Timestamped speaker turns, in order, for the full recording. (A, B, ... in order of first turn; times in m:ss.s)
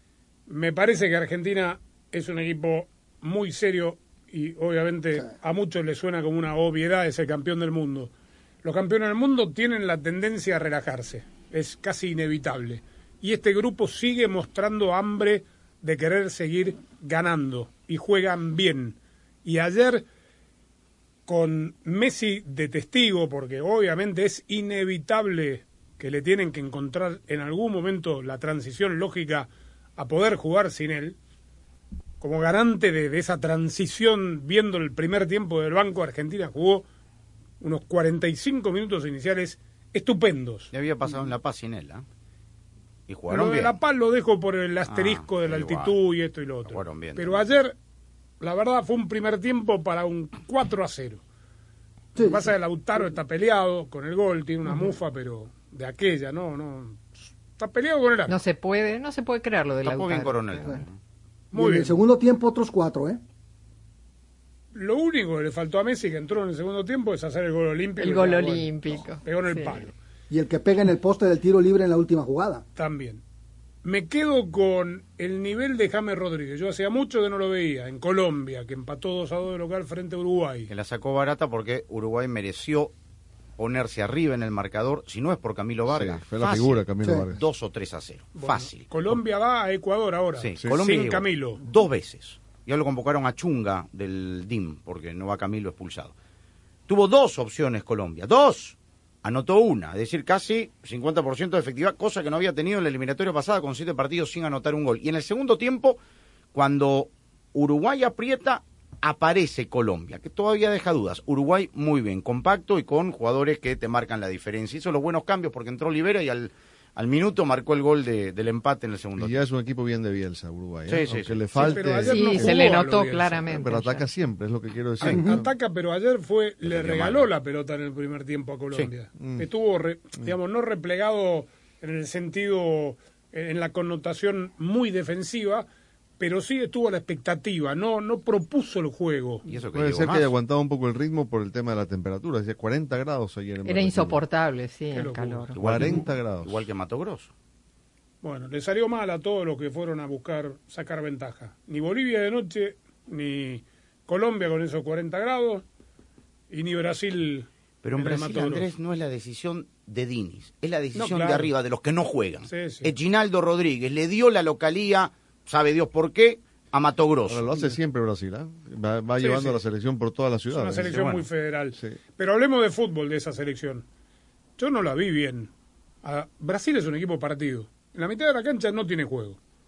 0:00.5-0:08.1 A
0:08.6-0:20.0 A
0:21.3-0:31.2 A
0:32.2-0:36.8 A
0:37.6-0:40.7 A
0:40.7-0:42.0 B
0:43.1-0:43.8 B
0:43.3-0:47.7 A
0:44.9-0:46.0 B
0:46.6-0:47.4 B
0:48.4-0:51.2 A
0:52.2-0:52.5 C
0:52.2-0:58.4 A
0:58.3-1:00.8 D
0:59.8-1:01.0 B
1:01.5-1:01.9 A
1:01.5-1:03.2 C
1:04.7-1:08.7 A
1:08.0-1:09.9 D
1:09.2-1:09.9 A
1:10.3-1:12.6 C
1:12.8-1:13.2 A
1:13.8-1:20.7 A
1:20.7-1:22.9 B
1:23.6-1:28.9 B
1:25.9-1:27.4 E
1:28.3-1:31.6 A
1:30.4-1:36.1 B
1:36.9-1:46.0 B
1:46.5-1:59.4 B
1:59.2-2:02.8 E
2:00.9-2:01.7 B
2:01.5-2:03.4 A
2:02.0-2:04.0 D
2:03.4-2:05.5 E
2:05.2-2:15.6 A
2:06.6-2:07.3 B
2:09.2-2:09.5 E
2:16.2-2:19.4 A
2:19.4-2:20.3 B
2:19.7-2:24.2 E
2:23.6-2:25.6 D
2:24.9-2:25.5 A
2:25.5-2:27.3 B
2:25.6-2:26.6 E
2:28.2-2:35.6 A
2:36.5-2:38.7 A
2:37.8-2:47.4 B
2:40.9-2:41.5 A
2:42.4-2:42.9 A
2:47.3-2:51.1 E
2:49.2-2:49.6 A
2:50.5-2:53.8 A
2:50.9-2:51.2 B
2:54.6-2:55.5 A
2:56.0-2:59.4 A